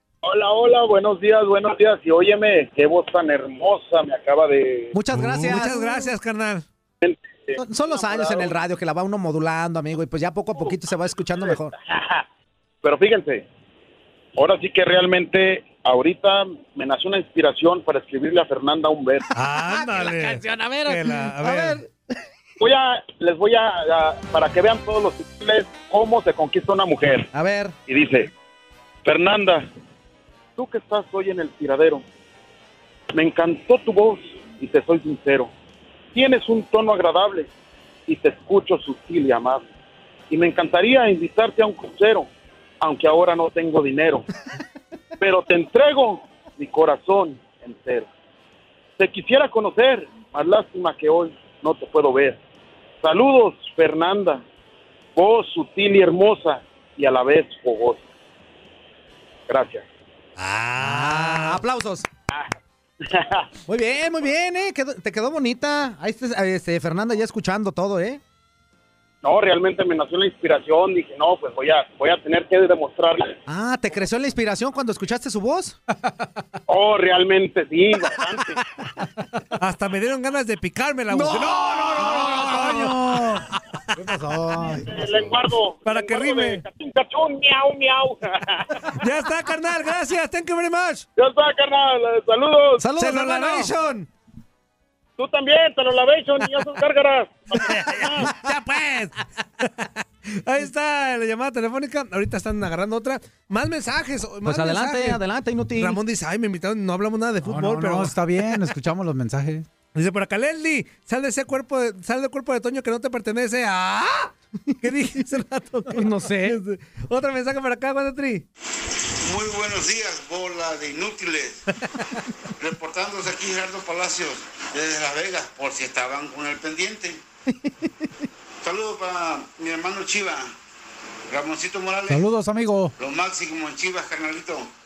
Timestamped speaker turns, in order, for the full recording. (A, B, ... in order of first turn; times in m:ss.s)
0:00.2-0:04.9 A
0:04.9-0:06.1 B
0:05.1-0:06.6 C
0:07.0-0:08.5 A
0:07.6-0:11.7 B
0:11.8-0:12.2 A
0:12.8-0:13.4 A
0:14.3-0:19.2 A
0:19.3-0:21.8 C
0:19.5-0:21.8 B
0:22.6-0:27.3 A
0:27.3-0:27.8 B
0:27.9-0:28.3 A
0:29.0-0:29.7 A
0:30.6-0:32.0 A
0:33.1-0:35.5 A
0:36.1-0:37.5 A
0:38.1-0:39.7 A
0:40.3-0:42.3 A
0:42.8-0:44.2 A
0:45.2-0:48.1 A
0:49.0-0:52.4 A
0:53.0-0:54.4 A
0:55.1-0:58.0 A
0:59.5-0:59.8 A
1:00.4-1:01.6 C
1:00.8-1:02.1 B
1:03.0-1:03.5 A
1:03.7-1:08.2 B
1:09.2-1:13.4 A
1:13.4-1:15.8 B
1:16.7-1:18.6 A
1:19.6-1:23.3 C
1:21.1-1:25.4 B
1:24.9-1:28.8 A
1:25.8-1:26.6 C
1:29.0-1:31.0 C
1:31.2-1:32.8 A
1:32.8-1:33.7 B
1:32.9-1:34.1 C
1:35.2-1:38.3 A
1:37.5-1:45.2 C
1:44.4-1:46.0 B
1:45.8-1:48.2 C
1:47.4-1:49.7 D
1:49.9-1:58.4 C
1:55.9-1:56.6 B
1:59.2-2:01.6 E
2:02.6-2:07.2 E
2:08.6-2:10.5 E
2:11.3-2:12.3 E
2:12.1-2:12.9 D
2:13.0-2:14.7 E